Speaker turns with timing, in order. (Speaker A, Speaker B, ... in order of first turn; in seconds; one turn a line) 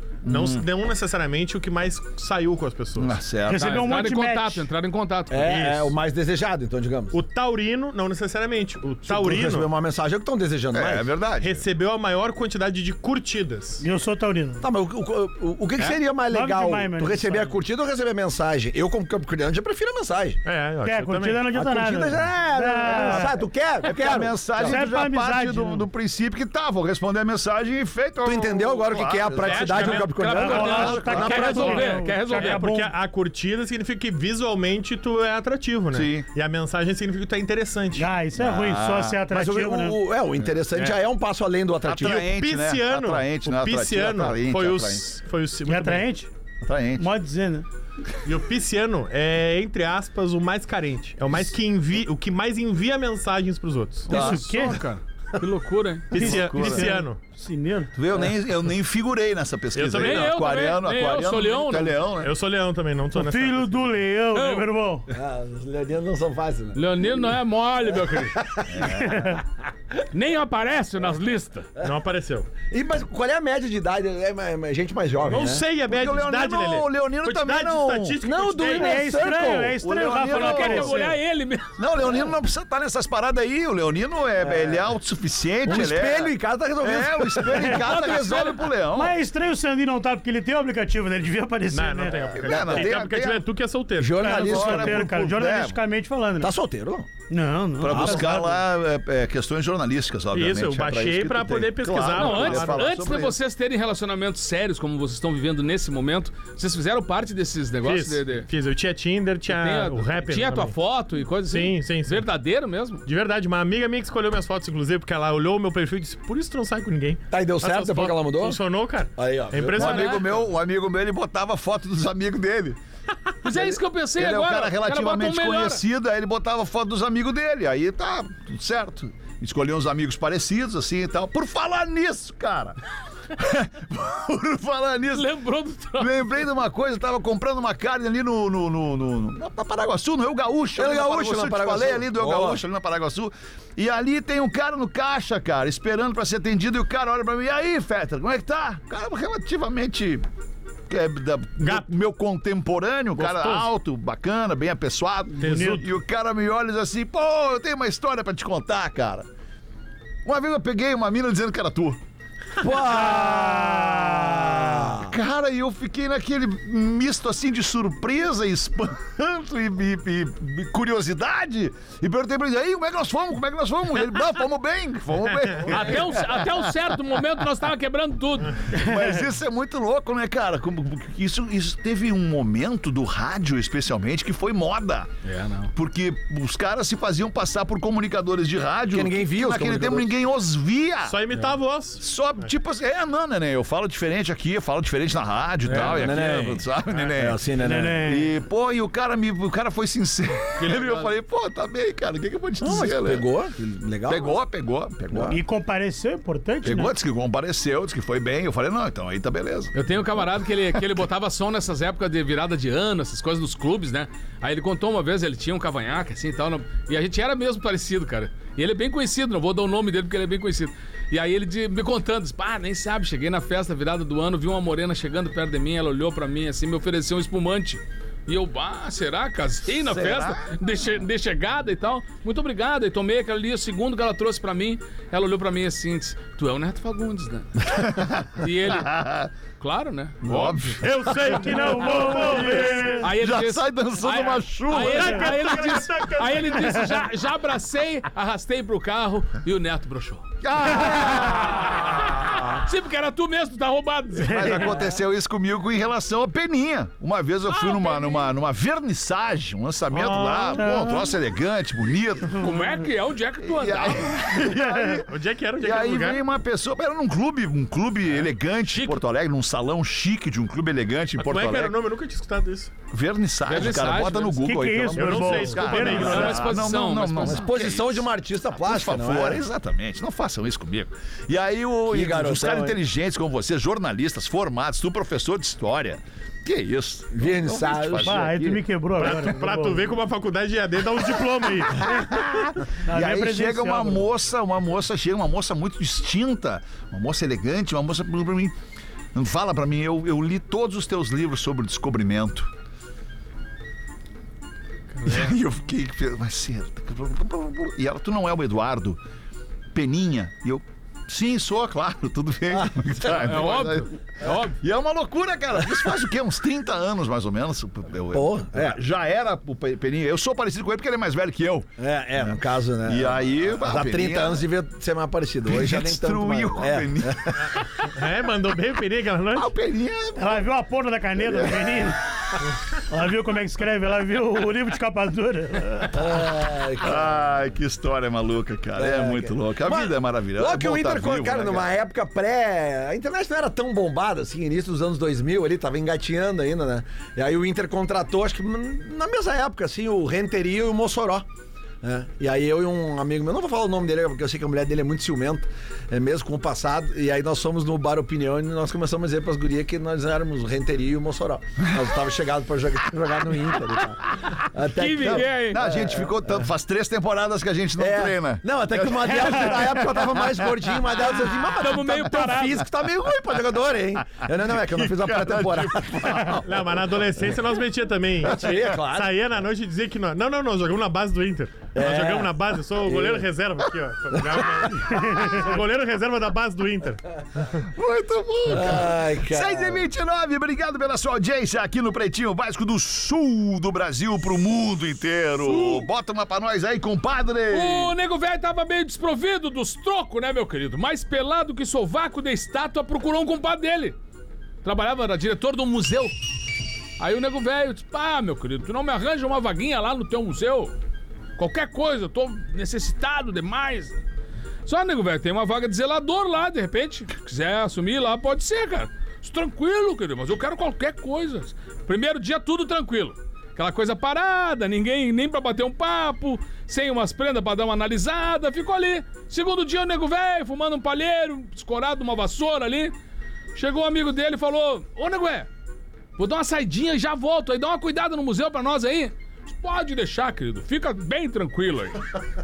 Speaker A: 0.2-0.7
Speaker B: 0.2-3.1
Speaker A: 3.0-3.9
Speaker C: 3.5-4.7
Speaker D: 3.5-5.6
Speaker E: 5.3-7.2
Speaker B: 5.4-5.9
Speaker B: 7.1-9.7
Speaker E: 9.1-11.1
Speaker A: 10.7-11.6
Speaker B: 11.4-13.8
Speaker C: 13.8-14.6
Speaker E: 14.6-20.4
Speaker C: 16.3-17.5
Speaker B: 20.4-21.5
Speaker C: 20.8-23.4
Speaker E: 21.5-24.8
Speaker A: 23.8-29.9
Speaker C: 24.6-25.9
Speaker E: 28.2-31.9
Speaker B: 29.4-30.9
Speaker D: 29.8-32.6
Speaker C: 30.3-32.9
Speaker A: 30.7-31.5
Speaker B: 31.6-38.1
Speaker A: 35.9-36.3
Speaker C: 38.0-40.0
Speaker A: 38.4-39.2
Speaker E: 39.3-42.3
Speaker A: 41.8-45.0
Speaker B: 42.3-46.1
Speaker C: 45.7-46.3
Speaker A: 46.6-47.1
Speaker C: 47.0-47.6
Speaker B: 48.2-54.4
Speaker D: 54.1-56.2
Speaker A: 54.1-54.4
Speaker C: 54.1-54.8
Speaker B: 56.1-57.2
Speaker C: 56.1-57.9
Speaker A: 56.2-56.9
Speaker A: 57.9-62.3
Speaker B: 59.7-60.3
Speaker D: 59.9-62.0
Speaker B: 62.2-63.9
Speaker C: 63.1-65.1
Speaker D: 64.3-64.7
Speaker E: 65.1-67.3
Speaker D: 66.7-68.4
Speaker E: 67.9-68.9
Speaker A: 68.7-69.2
Speaker C: 68.8-69.4
Speaker D: 70.1-71.7
Speaker B: 71.8-72.5
Speaker E: 72.7-75.7
Speaker B: 75.2-79.3
Speaker A: 75.8-78.2
Speaker E: 78.2-79.8
Speaker C: 78.7-81.2
Speaker A: 79.8-81.0
Speaker D: 80.2-81.8
Speaker A: 81.8-89.2
Speaker E: 84.4-84.8
Speaker E: 85.6-88.0
Speaker C: 87.5-87.8
Speaker D: 87.7-88.7
Speaker C: 88.9-92.2
Speaker B: 91.7-94.3
Speaker E: 92.3-92.9
Speaker A: 92.3-93.4
Speaker E: 94.0-95.1
Speaker C: 94.2-96.5
Speaker A: 94.2-95.8
Speaker E: 96.4-97.1
Speaker C: 97.3-98.6
Speaker A: 97.8-103.4
Speaker E: 97.9-98.4
Speaker B: 100.3-103.0
Speaker D: 102.1-108.5
Speaker B: 107.8-110.7
Speaker D: 109.5-113.0
Speaker B: 111.5-112.3
Speaker B: 113.0-120.4
Speaker E: 117.3-118.6
Speaker E: 119.2-120.1
Speaker A: 119.7-122.8
Speaker D: 123.4-125.8
Speaker A: 124.2-132.8
Speaker A: 133.3-135.3
Speaker D: 135.1-136.3
Speaker A: 136.0-150.2
Speaker E: 140.8-142.6
Speaker A: 150.9-159.3
Speaker B: 151.6-151.9
Speaker B: 153.2-153.7
Speaker C: 155.3-155.8
Speaker B: 155.4-155.9
Speaker A: 160.2-162.0
Speaker E: 162.6-165.1
Speaker C: 162.8-164.6
Speaker A: 165.0-176.8
Speaker B: 175.5-176.0
Speaker D: 175.7-178.6
Speaker A: 178.7-185.1
Speaker D: 185.2-185.7
Speaker A: 185.7-191.2
Speaker E: 188.9-190.1
Speaker B: 191.0-192.0
Speaker A: 192.0-197.4
Speaker B: 195.7-196.2
Speaker E: 195.7-196.6
Speaker E: 197.2-198.0
Speaker C: 197.6-198.3
Speaker A: 198.0-203.3
Speaker D: 200.6-201.1
Speaker E: 202.6-204.4
Speaker A: 204.1-205.3
Speaker E: 205.0-205.4
Speaker C: 205.3-206.9
Speaker A: 206.6-209.7
Speaker D: 209.7-237.7
Speaker A: 229.7-230.5
Speaker A: 237.6-239.3
Speaker D: 238.4-238.9
Speaker D: 239.6-240.8
Speaker A: 240.2-241.4
Speaker B: 240.8-243.0
Speaker C: 241.3-243.0
Speaker A: 242.6-245.3
Speaker D: 243.0-250.2
Speaker B: 244.7-246.9
Speaker A: 250.4-252.4
Speaker D: 251.5-251.9
Speaker D: 252.4-254.8
Speaker C: 254.3-254.8
Speaker A: 254.3-262.5
Speaker D: 257.5-258.3
Speaker B: 259.9-260.7
Speaker C: 260.6-261.1
Speaker D: 262.4-264.2
Speaker C: 262.4-262.7
Speaker A: 263.4-271.7
Speaker C: 264.5-265.0
Speaker B: 265.0-266.2
Speaker D: 268.7-269.0
Speaker B: 271.2-272.7
Speaker A: 272.9-288.6
Speaker D: 273.5-274.8
Speaker C: 274.4-276.3
Speaker B: 274.9-276.5
Speaker D: 275.7-277.4
Speaker E: 277.2-279.4
Speaker E: 281.9-282.8
Speaker E: 287.1-288.2
Speaker C: 288.0-289.9
Speaker B: 289.0-291.9
Speaker A: 291.8-298.5
Speaker C: 292.9-294.1
Speaker A: 299.1-302.5
Speaker D: 304.9-305.3
Speaker A: 305.0-309.0
Speaker A: 309.7-313.9
Speaker E: 312.5-313.5
Speaker D: 313.2-314.6
Speaker A: 314.4-324.4
Speaker E: 318.1-318.8
Speaker E: 321.8-327.4
Speaker A: 325.5-327.4
Speaker B: 327.4-329.5
Speaker A: 329.3-330.4
Speaker C: 330.1-332.0
Speaker A: 331.3-331.5
Speaker C: 332.9-336.0
Speaker E: 335.9-337.1
Speaker A: 336.8-341.8
Speaker E: 338.8-351.2
Speaker E: 351.8-366.4
Speaker D: 364.7-365.6
Speaker A: 365.0-370.8
Speaker E: 367.8-376.4
Speaker D: 371.2-372.7
Speaker A: 374.5-376.6
Speaker B: 376.4-387.6
Speaker E: 378.2-379.1
Speaker E: 381.7-383.3
Speaker E: 384.1-384.8
Speaker C: 384.9-385.4
Speaker A: 387.6-397.9
Speaker E: 388.5-389.8
Speaker D: 395.4-395.9
Speaker D: 397.5-403.9
Speaker D: 404.6-406.1
Speaker D: 407.0-410.7
Speaker D: 411.4-414.0
Speaker D: 414.6-432.9
Speaker D: 433.5-435.5
Speaker D: 436.2-442.1